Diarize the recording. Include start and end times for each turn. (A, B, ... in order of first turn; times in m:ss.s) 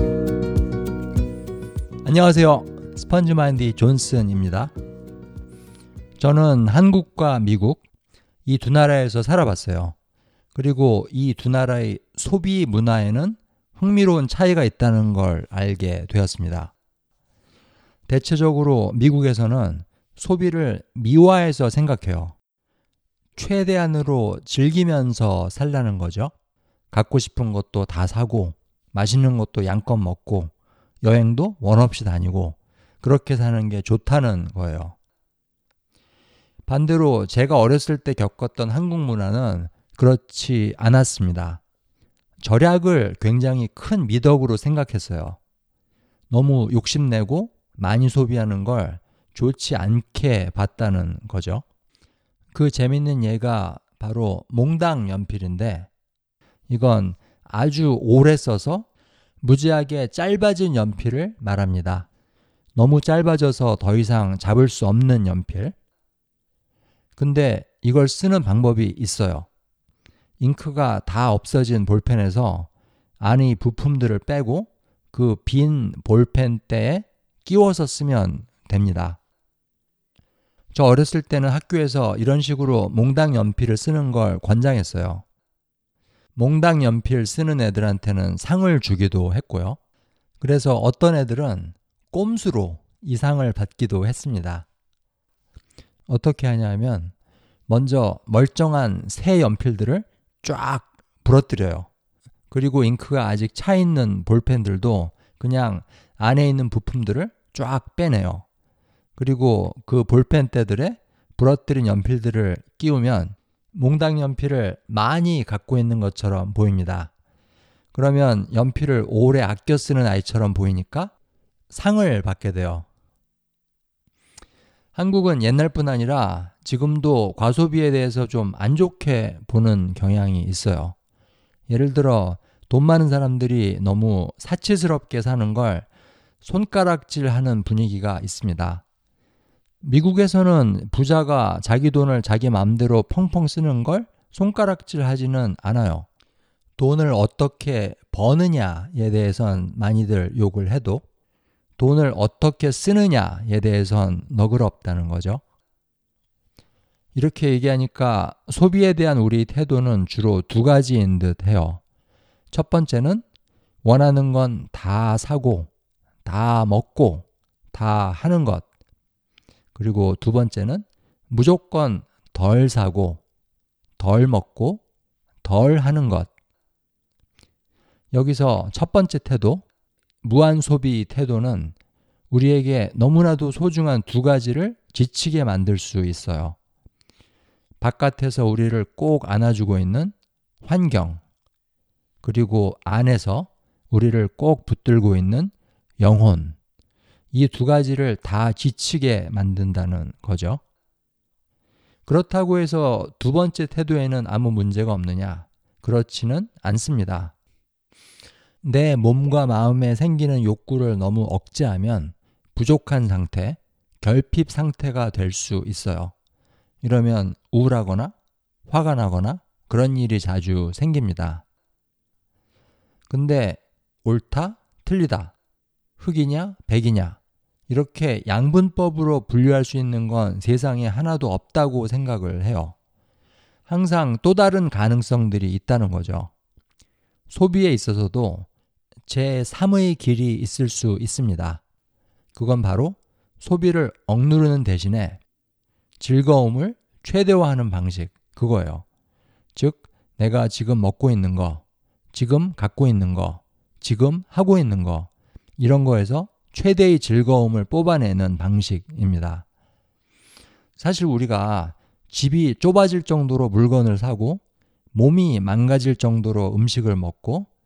0:02.0-0:04.7 A
0:06.2-0:07.8 A
0:08.4-0:09.9 A
0:10.5-0:16.7 A
0:18.1-0:22.4 A
0:23.4-0:26.3 A
0:26.9-0:35.0 A
0:36.7-0:41.6 A
0:42.4-0:45.4 A
0:46.3-0:51.6 A
0:52.5-0:55.9 A
0:56.7-0:58.9 A
0:59.4-1:02.1 A
1:02.8-1:05.7 A
1:07.2-1:09.5 A
1:10.4-1:12.7 A
1:13.2-1:19.2 A
1:20.7-1:25.2 A
1:26.4-1:29.8 A
1:30.4-1:34.6 A
1:36.1-1:37.1 A
1:37.7-1:41.9 A
1:42.5-1:48.4 A
1:49.2-1:57.1 A
1:57.9-2:01.1 A
2:01.7-2:02.8 A
2:04.9-2:11.0 A
2:11.7-2:15.9 A
2:16.4-2:18.8 A
2:19.8-2:26.1 A
2:26.8-2:31.0 A
2:31.8-2:35.4 A
2:37.1-2:41.8 A
2:42.5-2:43.2 A
2:43.8-2:45.7 A
2:46.2-2:48.6 A
2:49.7-2:53.2 A
2:54.0-2:54.8 A
2:55.4-2:56.3 A
2:58.1-2:59.6 A
3:00.2-3:01.7 A
3:02.3-3:06.6 A
3:07.8-3:11.2 A
3:12.2-3:16.6 A
3:17.3-3:20.6 A
3:22.0-3:27.3 A
3:28.6-3:36.1 A
3:36.8-3:38.1 A
3:38.7-3:41.4 A
3:43.1-3:45.3 A
3:46.0-3:47.2 A
3:47.7-3:52.7 A
3:53.7-3:56.3 A
3:57.3-3:58.5 A
3:59.1-4:01.6 A
4:02.3-4:05.2 A
4:06.0-4:08.8 A
4:09.5-4:11.6 A
4:12.1-4:19.4 A
4:20.8-4:24.4 A
4:24.9-4:27.5 A